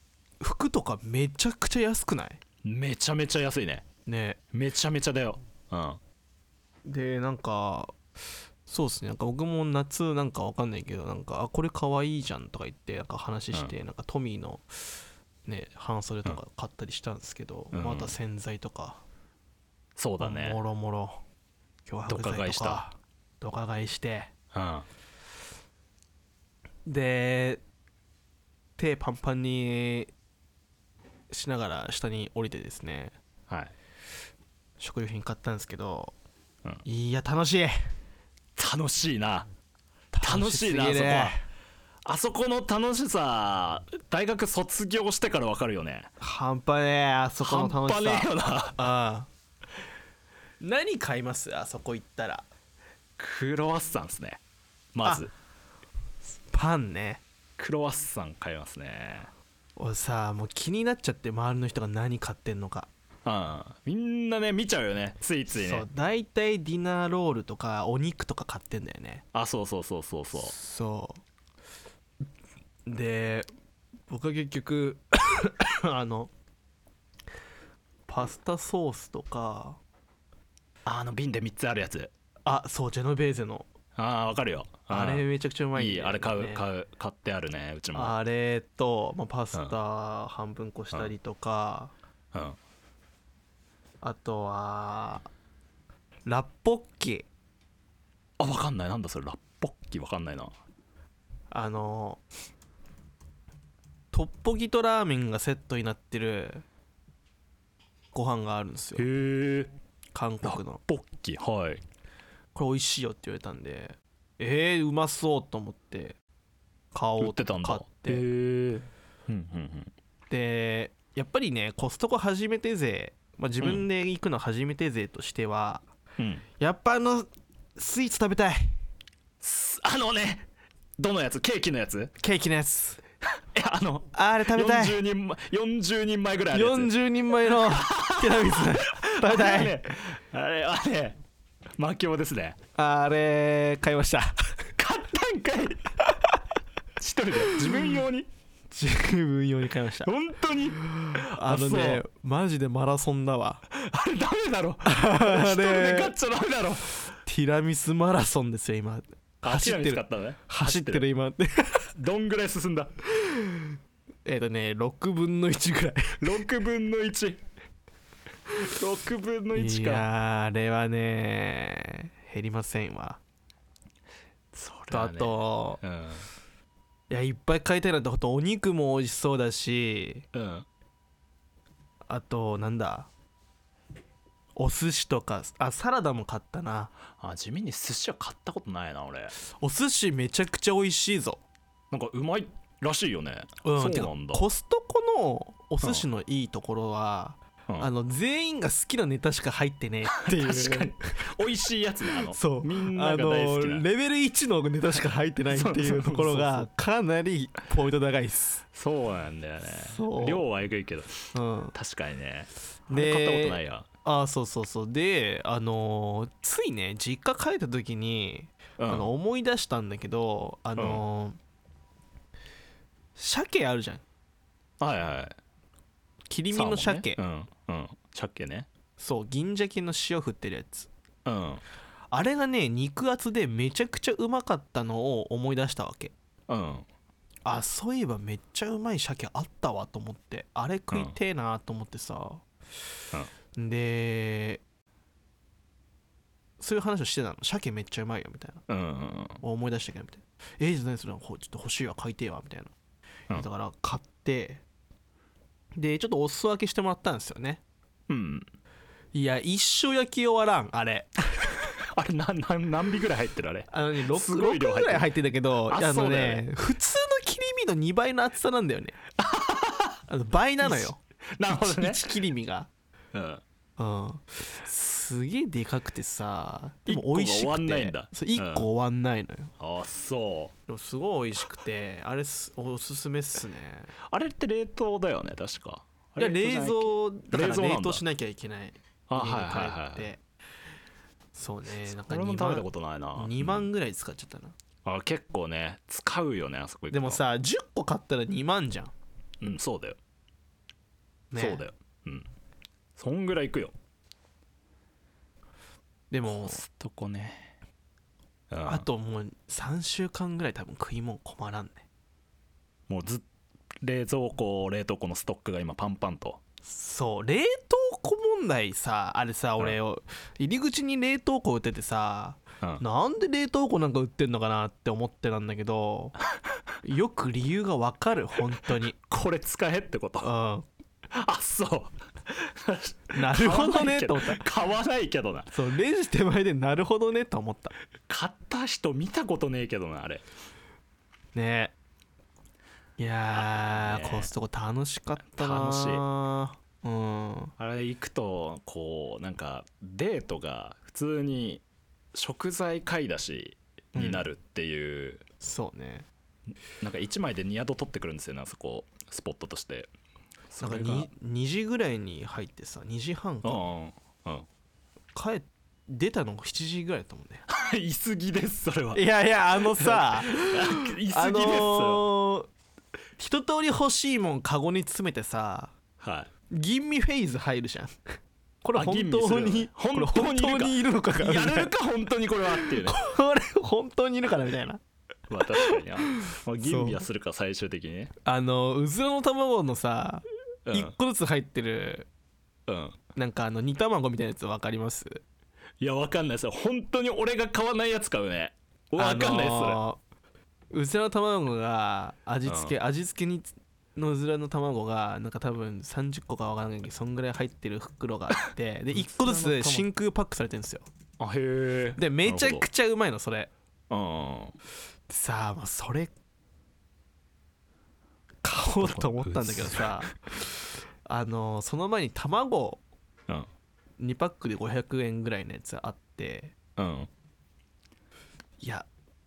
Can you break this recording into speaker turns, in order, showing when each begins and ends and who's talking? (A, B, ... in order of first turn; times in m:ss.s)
0:00.4-0:02.4 A
0:02.6-0:03.8 B
0:04.0-0:04.4 A
0:04.5-0:06.0 B
0:06.8-0:07.9 A
0:08.7-0:14.7 A
0:15.4-0:19.0 A
0:17.7-0:18.2 B
0:20.0-0:20.6 B
0:20.2-0:21.2 A
0:21.8-0:24.3 A
0:22.0-0:22.8 B
0:24.5-0:24.9 B
0:26.8-0:27.6 A
0:28.8-0:30.1 A
0:31.3-0:33.1 A
0:34.8-0:36.1 A
0:36.8-0:37.9 A
0:38.6-0:39.5 B
0:40.1-0:41.4 A
0:40.2-0:41.4 B
0:42.0-0:46.1 B
0:46.2-0:49.3 A
0:47.4-0:48.9 B
0:50.6-0:52.5 A
0:53.2-0:54.4 B
0:54.9-0:55.3 B
0:56.5-0:57.2 A
0:57.6-0:59.3 B
0:59.8-1:02.9 A
1:03.2-1:05.8 B
1:05.5-1:09.2 A
1:09.3-1:10.5 B
1:10.4-1:11.2 A
1:12.8-1:13.5 A
1:14.1-1:16.3 A
1:18.1-1:19.8 A
1:20.8-1:22.1 B
1:22.4-1:23.7 A
1:24.0-1:28.2 B
1:24.9-1:26.6 A
1:27.9-1:31.9 A
1:32.3-1:32.6 B
1:34.0-1:35.3 A
1:36.2-1:37.3 A
1:38.4-1:40.5 B
1:41.5-1:42.2 A
1:44.1-1:46.6 A
1:48.1-1:49.0 A
1:49.0-1:49.7 B
1:50.1-1:50.8 A
1:50.4-1:51.8 B
1:52.5-1:56.2 A
1:56.9-1:58.2 A
1:57.2-1:59.9 B
2:00.3-2:05.8 A
2:06.2-2:06.4 B
2:06.6-2:08.8 A
2:09.4-2:10.5 B
2:11.0-2:12.1 B
2:12.2-2:13.0 A
2:13.5-2:16.9 B
2:14.1-2:15.0 A
2:16.5-2:19.7 A
2:17.5-2:21.2 B
2:21.8-2:22.6 B
2:22.7-2:24.6 A
2:24.8-2:26.0 B
2:27.0-2:28.3 B
2:27.6-2:28.0 A
2:28.7-2:30.1 A
2:30.0-2:32.0 B
2:30.8-2:33.6 A
2:33.7-2:37.0 B
2:34.8-2:36.2 A
2:37.2-2:41.9 A
2:39.4-2:41.0 B
2:41.9-2:42.9 B
2:43.2-2:46.4 A
2:46.2-2:47.4 B
2:48.6-2:50.1 B
2:49.5-2:53.2 A
2:54.5-2:56.3 B
2:54.9-2:55.8 A
2:57.1-3:00.2 A
3:00.3-3:00.6 B
3:02.1-3:03.1 A
3:04.6-3:06.9 A
3:07.2-3:09.3 B
3:09.5-3:11.4 A
3:11.9-3:14.4 B
3:13.6-3:21.2 A
3:20.1-3:23.8 B
3:22.1-3:28.6 A
3:25.5-3:26.7 B
3:28.7-3:33.8 B
3:29.8-3:30.4 A
3:31.3-3:31.8 A
3:32.9-3:41.4 A
3:38.8-3:39.1 B
3:40.8-3:41.0 B
3:43.2-3:44.0 A
3:44.8-3:45.4 B
3:46.3-3:47.2 A
3:46.5-3:48.7 B
3:49.0-3:50.9 A
3:51.2-3:51.6 B
3:52.1-3:56.1 A
3:56.5-3:56.9 B
3:57.4-4:02.4 A
4:03.5-4:04.6 A
4:06.6-4:08.6 A
4:08.7-4:09.4 B
4:09.4-4:12.7 A
4:13.3-4:14.6 A
4:15.7-4:17.6 A
4:18.1-4:18.5 B
4:19.1-4:21.6 A
4:21.6-4:25.1 B
4:23.7-4:29.0 A
4:25.6-4:26.4 B
4:29.2-4:30.0 B
4:30.1-4:32.7 A
4:30.6-4:32.1 B
4:33.1-4:33.4 B
4:33.8-4:39.5 A
4:36.9-4:38.7 B
4:39.6-4:40.5 B
4:40.7-4:43.9 A
4:44.0-4:48.0 B
4:46.2-4:50.2 A
4:49.1-4:50.1 B
4:51.3-4:54.5 A
4:51.8-4:53.7 B
4:54.8-4:57.2 B
4:56.9-4:58.9 A
4:59.4-5:00.0 B
5:01.3-5:01.6 A
5:01.4-5:02.3 B
5:03.0-5:03.7 B
5:06.1-5:06.6 A
5:06.2-5:07.5 B
5:08.5-5:08.9 B
5:08.6-5:11.8 A
5:12.9-5:13.2 B
5:13.8-5:16.4 B
5:16.6-5:26.2 A
5:26.8-5:29.0 A
5:29.0-5:30.3 B
5:30.2-5:30.7 A
5:31.1-5:35.5 B
5:33.1-5:34.4 A
5:35.5-5:37.7 A
5:38.1-5:40.2 B
5:41.3-5:41.7 A
5:43.0-5:47.5 A
5:43.3-5:44.3 B
5:45.3-5:46.0 B
5:47.6-5:51.6 B
5:52.1-5:55.2 B
5:53.9-5:54.2 A
5:55.4-5:56.1 A
5:56.8-5:59.9 B
6:00.5-6:01.1 B
6:00.6-6:03.6 A
6:03.4-6:04.5 B
6:05.1-6:07.4 A
6:07.5-6:12.1 B
6:08.9-6:12.5 A
6:13.2-6:15.7 A
6:16.0-6:16.3 B
6:16.5-6:18.1 A
6:18.6-6:21.7 A
6:18.7-6:23.0 B
6:22.5-6:24.8 A
6:25.3-6:28.1 B
6:25.6-6:27.0 A
6:28.2-6:32.1 A
6:30.7-6:30.9 B
6:32.7-6:33.0 B
6:33.2-6:35.2 A
6:35.8-6:39.8 B
6:39.0-6:40.0 A
6:40.7-6:50.8 A
6:42.5-6:42.7 B
6:48.9-6:49.9 B
6:51.2-6:52.6 B
6:52.0-6:53.5 A
6:53.9-6:54.6 B
6:55.1-6:56.1 A
6:58.4-7:00.5 A
6:58.8-7:00.1 B
7:01.0-7:02.8 A
7:04.0-7:06.5 A
7:06.8-7:07.1 B
7:08.6-7:08.9 A